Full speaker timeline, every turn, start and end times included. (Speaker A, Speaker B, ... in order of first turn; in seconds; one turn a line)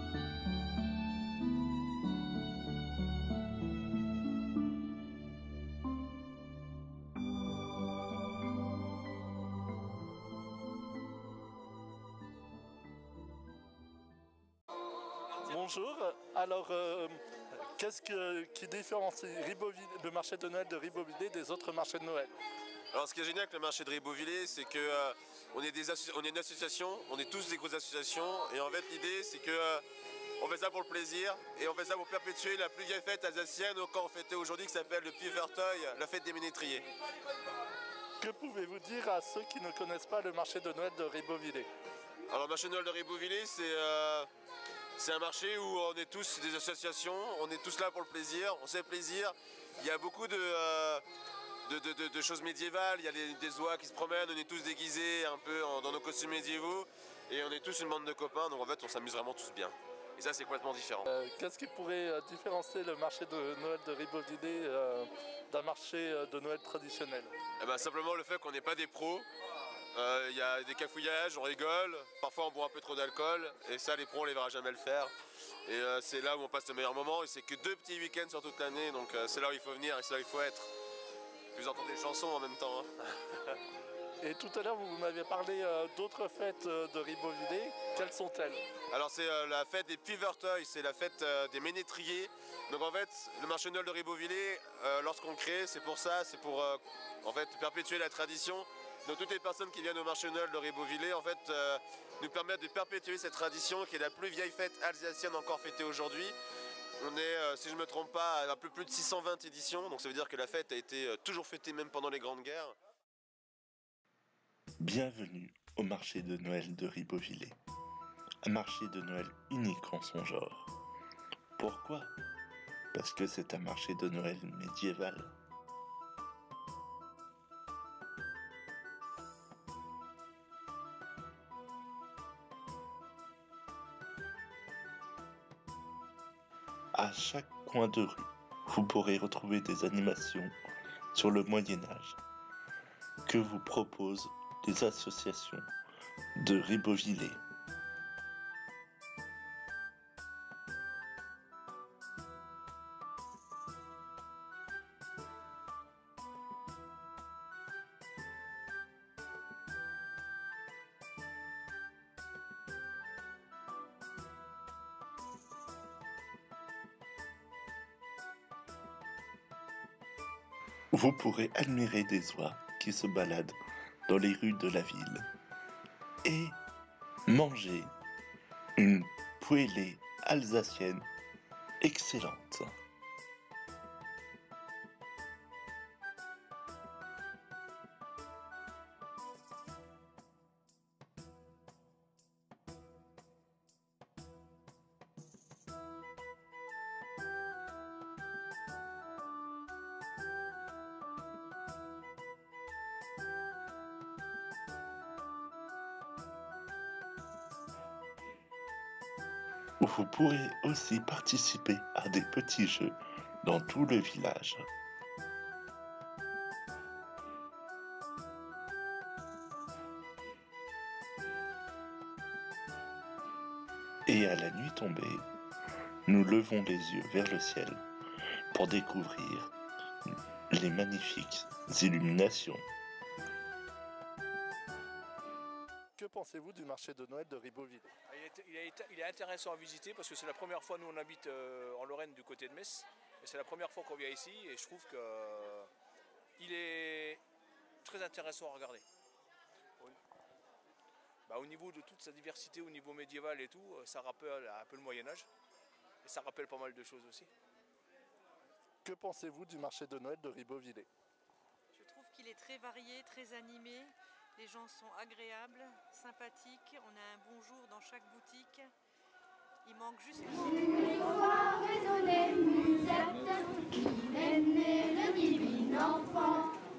Speaker A: 15.4-17.2
Speaker A: 17.7-22.3
Speaker B: 22.9-29.8
Speaker B: 30.4-36.9
Speaker A: 38.2-41.7
Speaker B: 42.3-44.3
Speaker B: 45.0-51.0
Speaker B: 51.7-61.1
Speaker A: 61.0-67.3
Speaker B: 67.6-69.3
Speaker B: 69.9-75.1
Speaker B: 75.7-80.7
Speaker B: 81.5-83.5
Speaker A: 84.2-88.6
Speaker B: 88.9-106.4
Speaker B: 107.0-112.8
Speaker C: 114.8-117.6
Speaker C: 118.5-120.7
Speaker C: 121.6-122.2
Speaker C: 122.9-125.3
Speaker C: 136.9-140.6
Speaker C: 141.1-142.2
Speaker C: 143.3-145.7
Speaker C: 146.4-147.4
Speaker C: 170.9-175.3
Speaker C: 176.2-176.6
Speaker C: 177.3-177.9
Speaker C: 178.8-181.1
Speaker C: 181.8-182.7
Speaker C: 209.8-214.7
Speaker C: 224.1-225.3
Speaker C: 226.1-227.8
Speaker C: 228.5-229.5
Speaker C: 230.5-232.7
Speaker A: 236.0-237.9
Speaker D: 238.1-245.7
Speaker D: 246.4-247.2
Speaker D: 247.8-248.8
Speaker D: 251.3-255.3
Speaker D: 256.0-257.3
Speaker A: 258.9-260.9
Speaker E: 261.8-268.5
Speaker F: 263.8-268.6
Speaker E: 269.7-273.7
Speaker F: 271.3-274.9
Speaker E: 274.4-275.8
Speaker F: 275.6-276.4